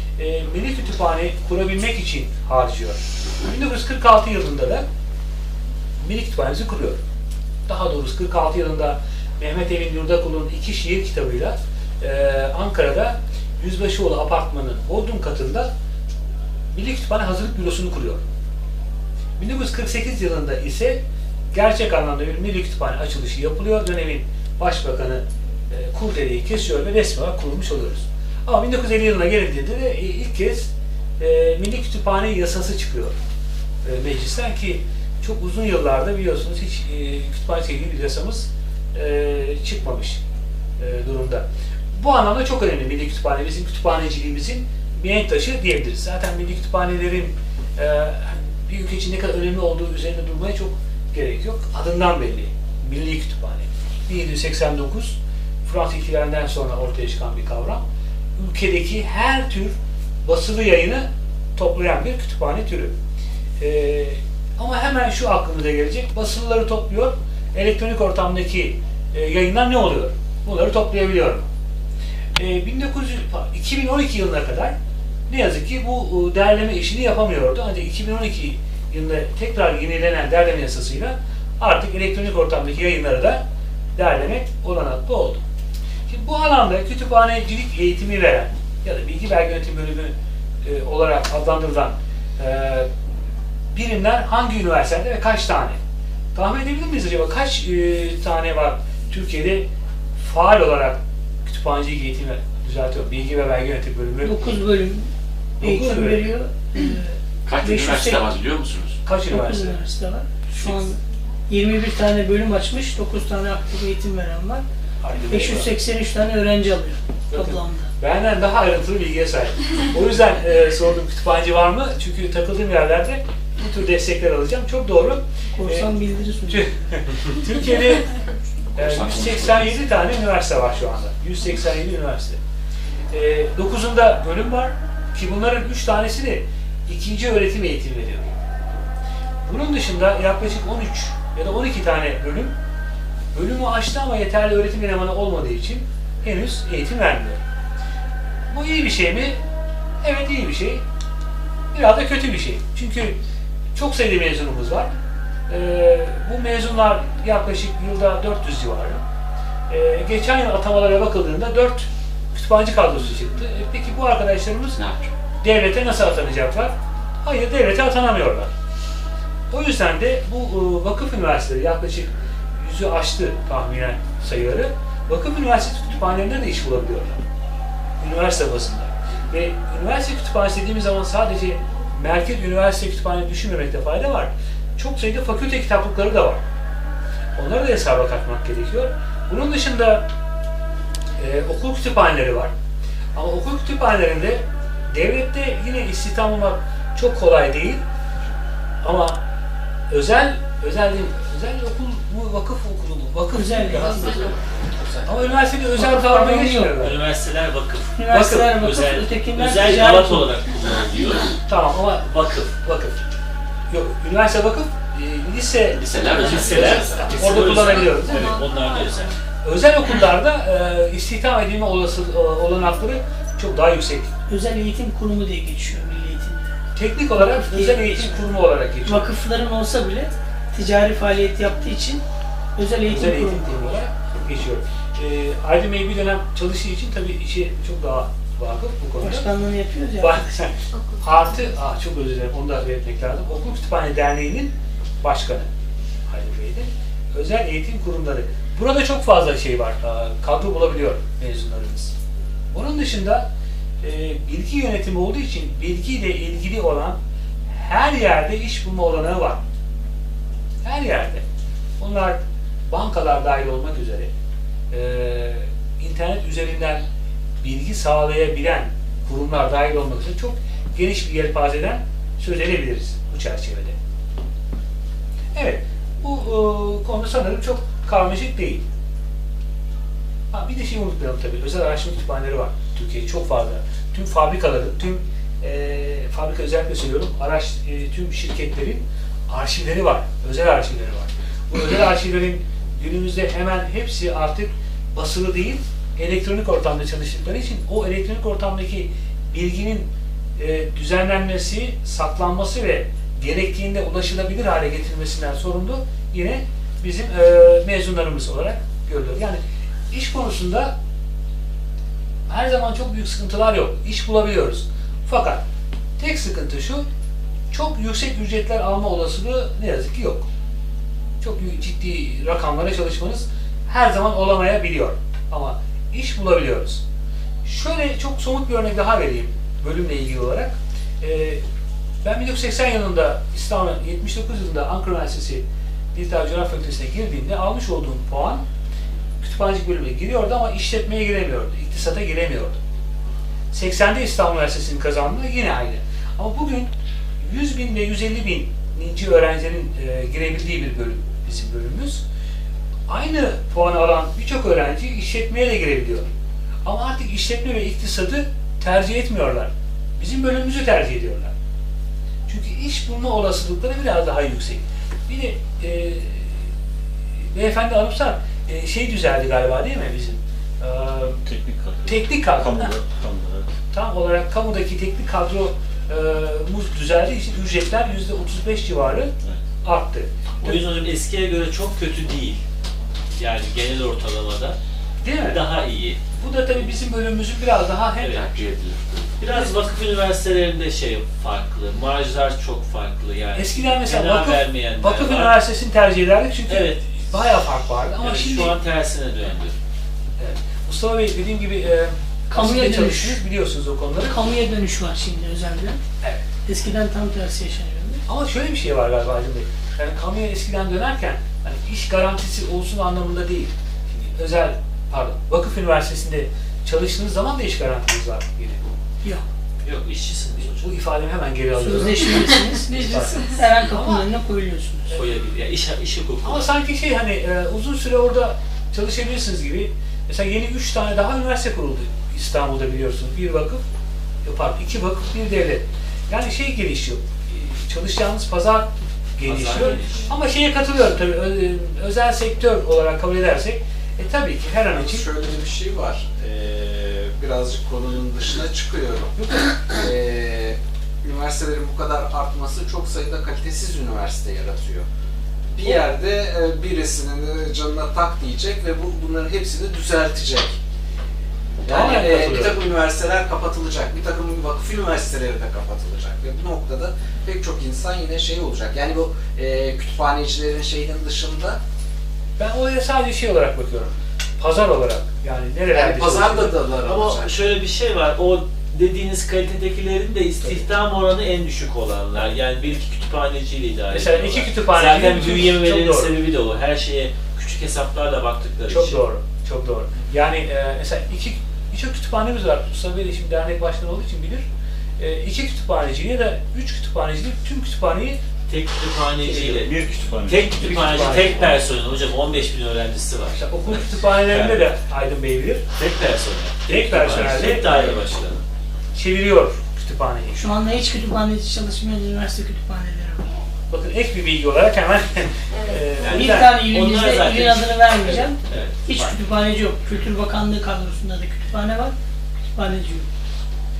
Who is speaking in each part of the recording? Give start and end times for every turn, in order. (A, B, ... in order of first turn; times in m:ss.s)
0:00.2-0:04.8 A
0:06.0-0:07.0 A
0:07.7-0:15.7 A
0:16.7-0:18.2 A
0:19.4-0:21.0 A
0:21.5-0:33.1 A
0:33.8-0:40.2 A
0:40.8-0:57.8 A
0:58.4-1:02.9 A
1:03.6-1:11.5 A
1:12.4-1:14.7 A
1:15.3-1:23.4 A
1:23.9-1:25.4 A
1:26.1-1:32.9 A
1:33.7-1:35.8 A
1:36.3-1:39.6 A
1:40.2-1:44.4 A
1:44.2-1:45.1 B
1:45.6-1:46.3 A
1:45.6-1:48.4 B
1:47.4-1:49.0 C
1:49.0-1:49.8 A
1:49.3-1:54.6 B
1:50.6-1:50.9 A
1:55.0-1:55.7 A
1:55.2-1:57.9 B
1:57.3-2:05.9 A
2:05.6-2:06.9 B
2:06.5-2:08.1 A
2:08.7-2:12.4 A
2:09.1-2:09.5 C
2:13.1-2:18.3 A
2:19.4-2:22.5 A
2:23.3-2:27.4 A
2:28.5-2:29.4 A
2:30.0-2:30.8 A
2:31.7-2:33.2 A
2:33.7-2:34.9 A
2:35.5-2:39.0 A
2:39.7-2:44.8 A
2:44.8-2:45.1 C
2:45.4-2:48.5 A
2:49.5-2:57.2 A
2:58.0-3:06.4 A
3:07.4-3:10.0 A
3:11.2-3:12.5 A
3:13.1-3:17.8 A
3:18.8-3:19.2 A
3:19.9-3:24.2 A
3:23.3-3:24.3 B
3:25.0-3:27.0 A
3:25.8-3:26.7 B
3:26.8-3:31.4 D
3:28.0-3:30.4 B
3:28.1-3:28.5 A
3:31.4-3:33.0 A
3:32.0-3:32.5 D
3:33.7-3:38.4 A
3:35.7-3:39.1 C
3:36.1-3:39.1 D
3:36.3-3:37.2 E
3:39.4-3:44.1 A
3:44.3-3:46.5 B
3:46.7-3:49.1 A
3:47.1-3:48.2 B
3:48.8-3:52.0 B
3:52.6-3:53.8 B
3:52.8-3:59.3 A
3:59.0-4:00.5 B
4:00.0-4:05.5 A
4:06.1-4:11.9 A
4:12.5-4:13.3 A
4:13.8-4:17.0 A
4:17.5-4:19.4 A
4:20.6-4:21.2 A
4:21.8-4:24.1 A
4:24.7-4:26.8 A
4:27.4-4:33.8 A
4:35.3-4:38.6 A
4:40.3-5:10.7 A
5:12.3-5:15.4 A
5:16.0-5:16.8 A
5:17.5-5:20.2 A
5:21.2-5:26.8 A
5:27.4-5:31.4 A
5:32.0-5:38.4 A
5:39.2-5:42.6 A
5:43.5-5:52.0 A
5:52.9-5:56.1 A
5:56.6-6:01.3 A
6:02.3-6:06.4 A
6:07.3-6:11.2 A
6:11.2-6:13.5 F
6:11.8-6:12.7 A
6:13.7-6:19.1 A
6:19.6-6:20.6 A
6:20.4-6:22.4 D
6:23.2-6:24.6 D
6:25.0-6:25.4 A
6:25.2-6:26.0 D
6:26.2-6:28.2 A
6:28.1-6:29.0 C
6:29.2-6:35.4 D
6:29.3-6:29.6 A
6:33.3-6:38.6 A
6:36.5-6:36.9 D
6:38.0-6:39.6 D
6:40.2-6:44.2 A
6:42.3-6:43.2 B
6:44.0-6:45.8 B
6:46.4-6:48.0 B
6:48.0-6:58.6 A
6:59.6-7:00.7 D
7:00.6-7:04.0 A
7:01.5-7:04.9 B
7:02.7-7:03.2 C
7:04.9-7:06.5 D
7:06.2-7:13.6 A
7:14.2-7:25.0 A
7:19.2-7:20.1 D
7:24.7-7:34.8 E
7:35.6-7:40.6 E
7:41.6-7:51.6 E
7:41.6-7:42.6 A
7:52.4-7:56.5 A
7:55.7-7:57.4 E
7:56.8-8:09.0 D
8:03.9-8:06.2 A
8:08.7-8:14.4 A
8:15.0-8:18.2 A
8:18.5-8:19.7 D
8:19.2-8:19.6 A
8:19.6-8:20.6 F
8:20.2-8:24.6 D
8:20.6-8:21.6 A
8:23.3-8:25.6 A
8:25.7-8:28.4 D
8:26.7-8:28.0 A
8:28.9-8:30.4 A
8:30.3-8:33.3 B
8:33.7-8:36.6 A
8:36.0-8:39.2 D
8:36.0-8:41.9 B
8:42.5-8:43.1 B